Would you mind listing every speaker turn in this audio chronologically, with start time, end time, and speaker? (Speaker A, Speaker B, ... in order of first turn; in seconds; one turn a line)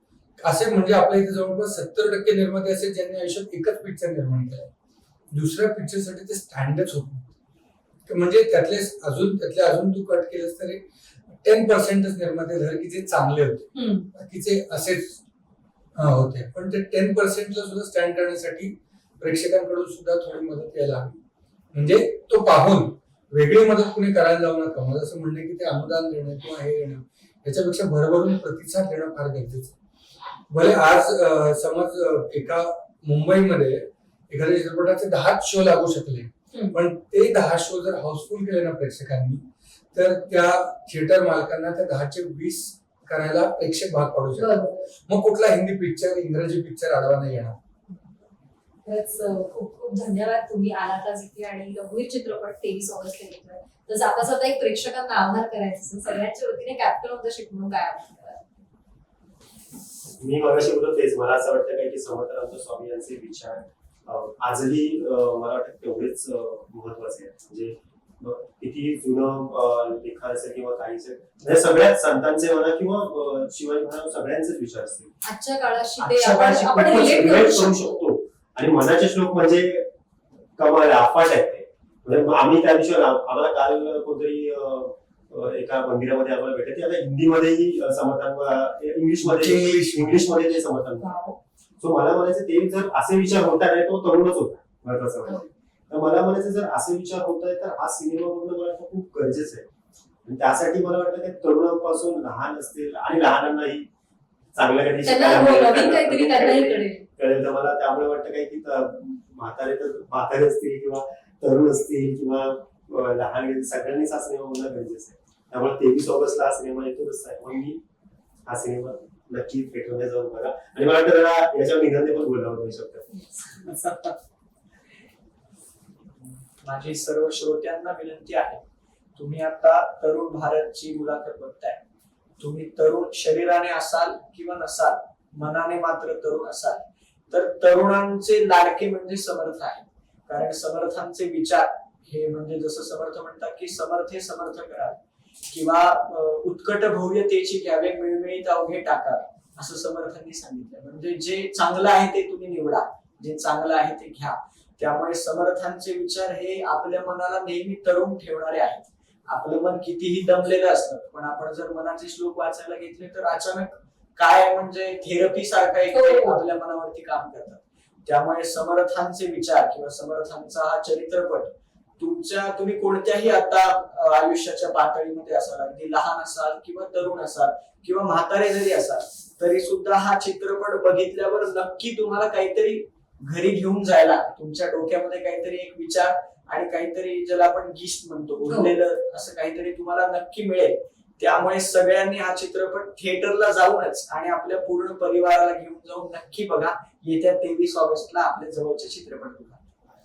Speaker A: 0.4-4.7
Speaker A: 5.3-7.3
Speaker A: 8.1-10.8
Speaker A: 11.4-15.2
Speaker B: 13.7-14.1
Speaker A: 15.9-21.2
Speaker A: 21.7-29.7
Speaker A: 30.5-47.6
Speaker B: 36.5-36.8
Speaker B: 44.4-44.9
Speaker B: 48.8-58.4
Speaker C: 60.2-75.1
Speaker B: 75.2-78.0
Speaker C: 76.0-79.9
Speaker C: 80.6-91.2
Speaker A: 89.2-90.2
Speaker B: 91.0-91.3
Speaker C: 91.8-99.7
Speaker C: 100.2-103.9
Speaker C: 104.5-117.8
Speaker B: 105.0-107.0
Speaker C: 118.5-123.0
Speaker B: 123.3-123.9
Speaker D: 126.2-128.6
Speaker D: 129.2-131.8
Speaker D: 132.4-145.0
Speaker D: 145.5-199.6
Speaker B: 165.9-166.4